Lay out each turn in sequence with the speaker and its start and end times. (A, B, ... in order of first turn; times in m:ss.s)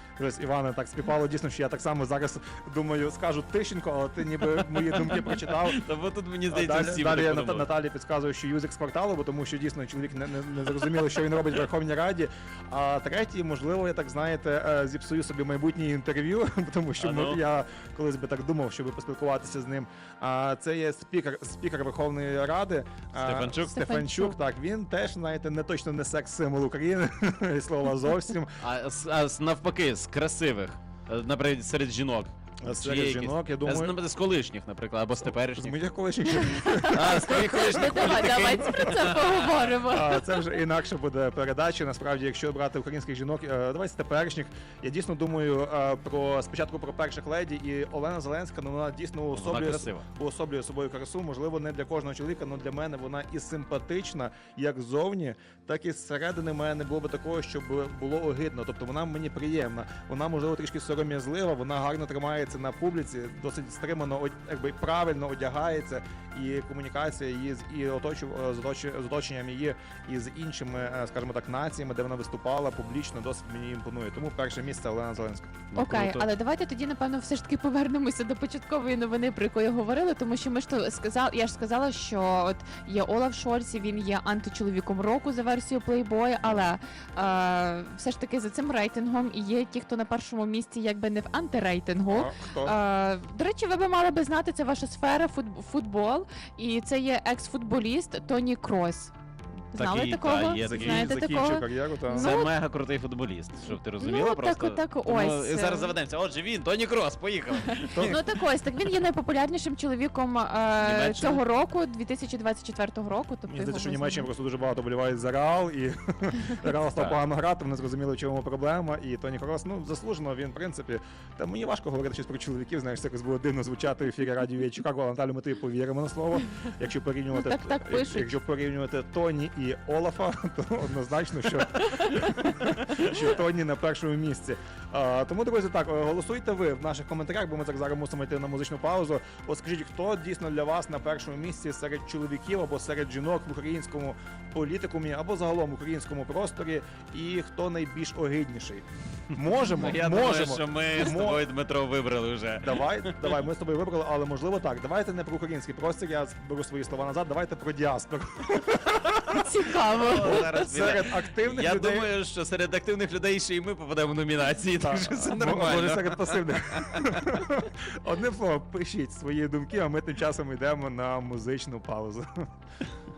0:00.2-0:05.8 A
0:04.6-0:07.7 B
0:06.5-0:28.5 A
0:17.0-0:17.4 B
0:23.2-0:23.7 B
0:23.7-0:24.4 C
0:28.6-0:35.8 B
0:32.6-0:34.0 A
0:35.2-0:38.8 A
0:36.4-0:40.4 C
0:36.9-0:39.4 B
0:39.9-1:15.6 A
0:49.3-0:50.0 B
1:15.7-1:16.2 B
1:15.8-1:39.1 C
1:26.4-1:26.7 A
1:32.1-1:32.8 A
1:39.7-1:42.5 C
1:39.7-1:41.5 B
1:40.7-1:42.3 A
1:42.1-1:48.2 B
1:44.0-1:45.9 C
1:48.0-1:54.3 C
1:50.8-1:51.4 B
1:53.5-2:31.4 A
2:07.3-2:08.4 C
2:29.4-2:33.4 B
2:32.6-2:38.8 A
2:38.8-2:47.4 B
2:39.3-2:40.4 C
2:40.2-2:42.1 A
2:44.8-2:52.2 A